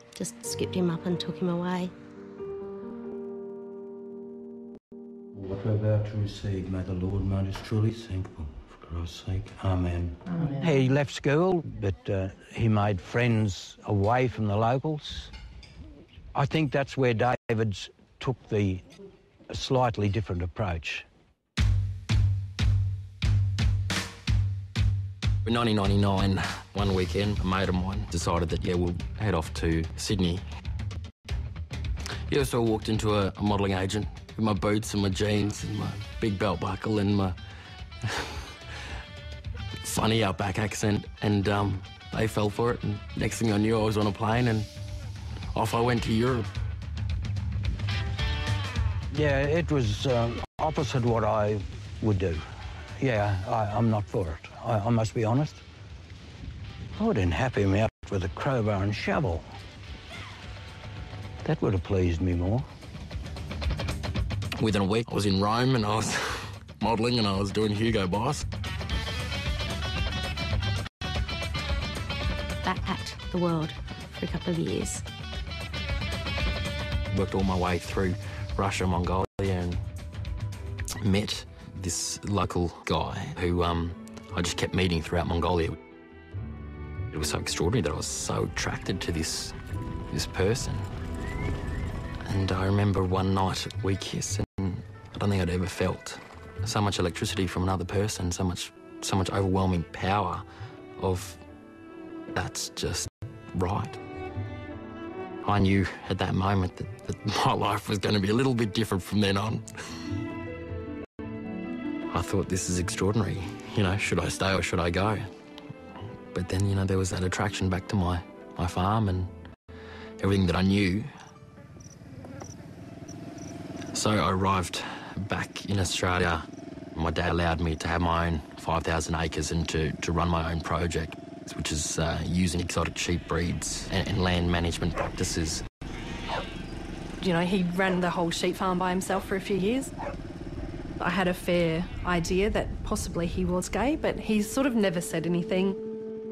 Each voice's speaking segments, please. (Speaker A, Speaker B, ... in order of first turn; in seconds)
Speaker A: 0.1-1.9, 72.6-75.0
Speaker B: 5.3-15.3, 16.3-18.8, 19.5-21.1, 49.1-52.4, 53.0-55.6, 57.0-59.5, 61.4-62.6
Speaker C: 25.4-30.4, 32.3-37.4, 38.0-38.5, 39.8-44.7, 45.5-46.5, 64.6-68.5, 77.1-79.8, 81.0-85.8, 87.1-89.5, 90.1-90.9, 92.2-100.4, 101.0-101.4, 102.3-104.0, 105.4-109.6, 112.1-115.2, 116.3-119.3, 120.2-121.1, 123.9-135.6
Speaker D: 137.2-139.9, 141.0-145.8